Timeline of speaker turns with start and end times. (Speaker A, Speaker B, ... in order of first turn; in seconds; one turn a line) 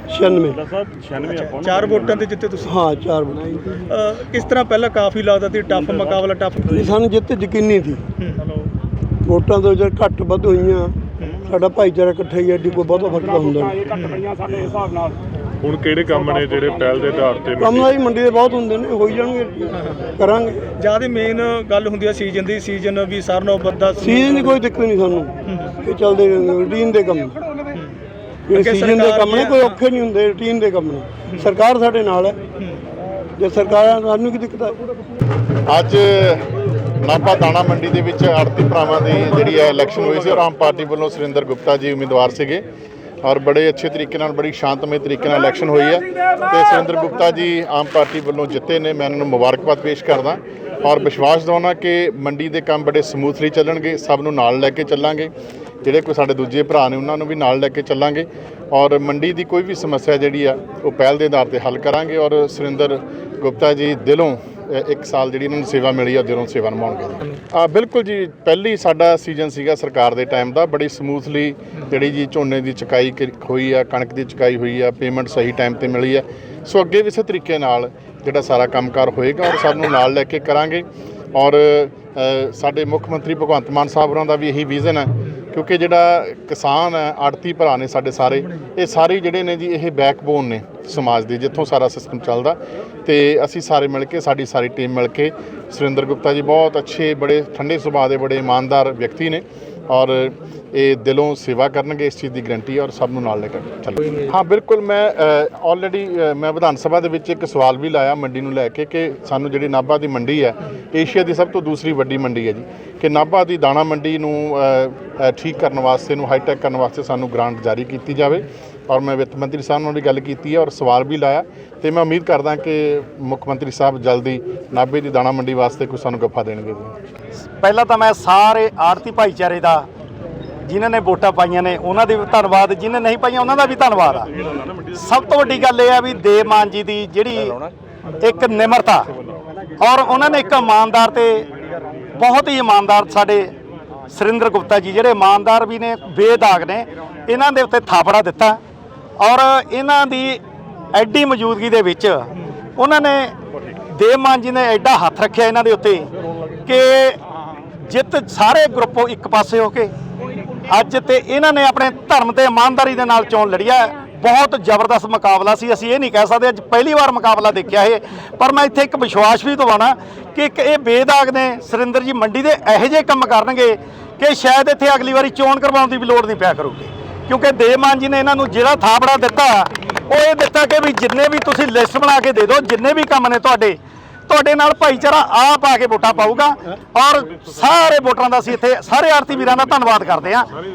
Speaker A: 0.1-0.6
Speaker B: 1.2-2.8
Speaker A: 2.6-3.8
Speaker B: 3.9-6.9
Speaker A: 6.7-8.0
Speaker A: 9.2-13.8
Speaker B: 13.9-14.4
Speaker C: 15.6-17.9
Speaker A: 17.6-20.7
Speaker B: 19.8-20.1
Speaker B: 20.8-24.6
Speaker A: 24.0-27.4
Speaker B: 25.5-25.8
Speaker A: 28.5-32.4
Speaker B: 28.5-29.8
Speaker A: 33.4-34.8
Speaker D: 35.7-36.5
Speaker D: 37.0-42.6
Speaker D: 43.2-55.3
Speaker D: 55.8-126.9
Speaker E: 127.6-129.9
Speaker E: 130.7-134.3
Speaker E: 134.9-137.6
Speaker E: 138.2-139.1
Speaker E: 139.8-141.4
Speaker E: 142.1-143.5
Speaker E: 144.1-148.6
Speaker E: 149.2-150.4
Speaker E: 150.9-153.3
Speaker E: 153.9-156.1
Speaker E: 156.7-157.2
Speaker E: 157.8-159.9
Speaker E: 160.7-183.8
Speaker E: 184.3-190.5